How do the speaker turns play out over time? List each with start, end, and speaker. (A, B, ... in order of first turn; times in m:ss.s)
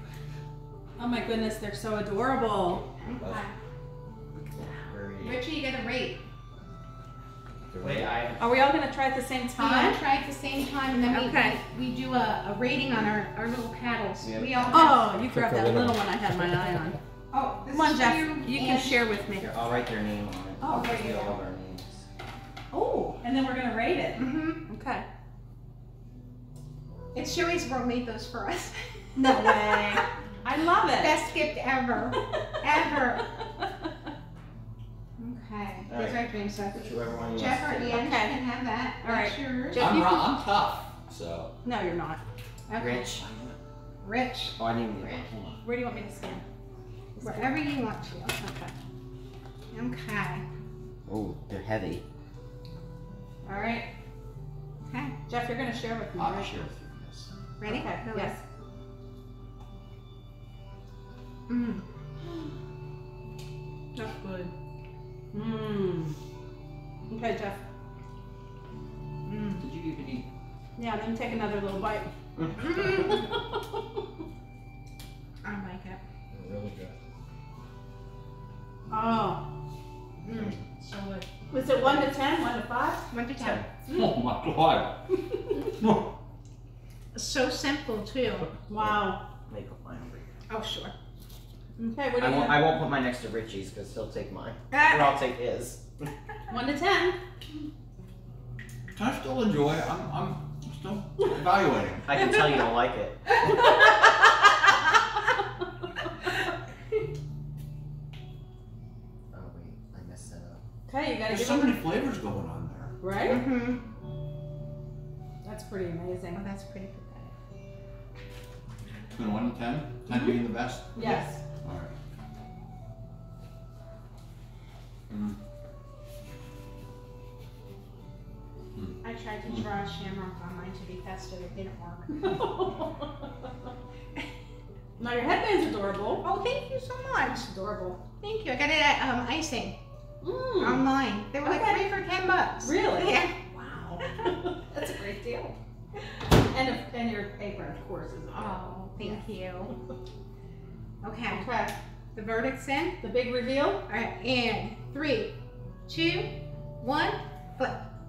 0:01.0-0:02.9 A
0:03.0-0:03.6 B
0:03.2-0:03.4 C
0:04.4-0:05.4 C
0:05.2-0:06.2 B
0:07.7-0:08.1 C
0:07.8-0:08.1 D
0:07.8-0:08.4 E
0:08.4-0:10.0 A
0:09.6-0:15.0 B
0:11.1-0:11.6 A
0:14.2-0:14.9 C
0:14.7-0:17.0 A
0:15.0-0:16.7 D
0:17.3-0:19.1 B
0:17.7-0:19.6 A
0:19.3-0:22.1 E
0:20.6-0:21.0 A
0:20.6-0:21.4 B
0:22.7-0:25.1 A
0:24.2-0:24.6 B
0:27.1-0:30.0 B
0:29.2-0:31.2 A
0:31.0-0:33.3 B
0:32.1-0:33.9 A
0:35.2-0:40.2 B
0:35.9-0:36.2 E
0:36.7-0:38.0 E
0:37.9-0:38.4 A
0:39.0-0:40.3 A
0:39.7-0:41.6 C
0:41.6-0:42.2 A
0:42.7-0:43.2 B
0:42.8-0:43.4 E
0:43.2-0:43.5 C
0:44.0-0:44.6 B
0:44.6-0:45.6 E
0:45.6-0:46.4 A
0:47.2-0:47.6 A
0:47.2-0:48.3 B
0:48.3-0:48.7 A
0:49.7-0:50.4 B
0:51.1-0:52.0 E
0:53.4-0:53.9 A
0:54.9-0:55.2 B
0:55.3-0:56.6 A
0:56.2-0:57.3 C
0:57.6-0:58.4 B
0:57.6-0:58.4 A
1:01.5-1:01.8 B
1:04.0-1:04.5 A
1:05.3-1:06.2 A
1:07.1-1:07.6 A
1:09.3-1:09.6 B
1:09.6-1:10.2 C
1:10.8-1:12.1 A
1:12.4-1:13.0 E
1:12.6-1:13.2 B
1:12.9-1:13.3 A
1:15.4-1:16.0 B
1:16.3-1:16.9 D
1:18.9-1:19.4 A
1:20.3-1:20.5 B
1:20.8-1:23.1 A
1:23.1-1:23.6 B
1:23.4-1:23.7 E
1:23.9-1:25.0 C
1:25.8-1:26.1 C
1:27.1-1:28.5 B
1:28.7-1:29.2 A
1:28.8-1:30.3 E
1:30.5-1:30.9 B
1:31.8-1:32.8 A
1:32.2-1:35.8 E
1:34.7-1:35.2 B
1:36.5-1:37.2 A
1:39.0-1:42.3 C
1:42.1-1:43.2 E
1:43.4-1:44.1 A
1:49.3-1:50.6 E
1:50.9-1:51.9 A
1:51.3-1:53.0 C
1:53.0-1:53.5 A
1:53.3-1:53.8 B
1:55.4-1:56.4 A
1:56.3-1:57.3 B
1:59.1-2:01.9 C
2:00.1-2:00.4 A
2:00.9-2:01.4 A
2:05.1-2:05.4 C
2:09.0-2:12.4 B
2:12.2-2:13.3 A
2:15.0-2:16.3 A
2:16.2-2:19.8 B
2:17.5-2:18.0 A
2:20.2-2:21.9 A
2:20.6-2:23.4 B
2:22.6-2:29.2 A
2:24.2-2:24.9 B
2:28.3-2:29.7 B
2:31.0-2:31.6 B
2:31.3-2:31.7 A
2:32.2-2:33.0 B
2:33.0-2:33.8 A
2:33.9-2:37.8 B